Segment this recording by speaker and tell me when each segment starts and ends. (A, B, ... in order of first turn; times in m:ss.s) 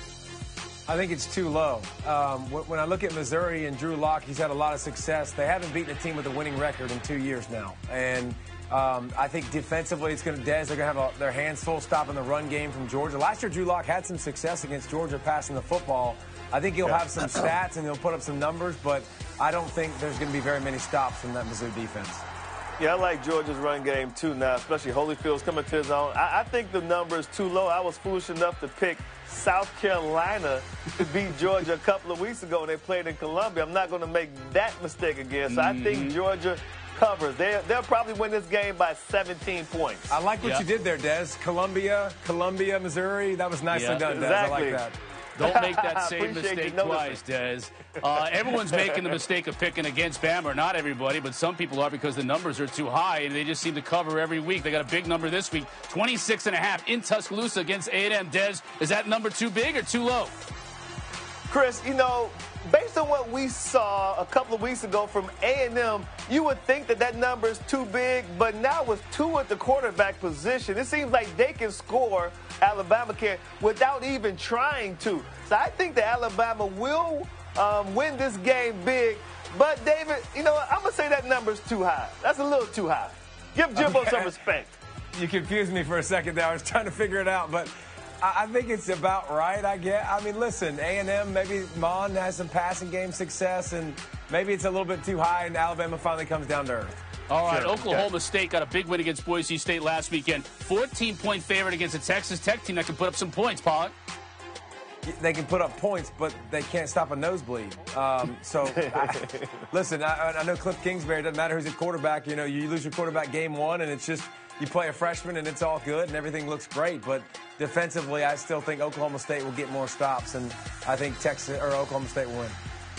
0:00.9-0:22.2 A
0:22.8-0:40.2 B
0:35.5-0:36.2 C
0:40.1-0:45.0 A
0:43.7-0:44.1 C
0:44.0-0:44.8 B
0:45.4-1:00.4 C
0:45.4-0:47.2 B
0:48.5-0:48.9 B
1:01.5-1:24.8 B
1:23.8-1:24.3 A
1:25.1-1:37.9 A
1:37.3-1:44.0 C
1:45.0-2:02.6 A
1:48.6-1:49.5 B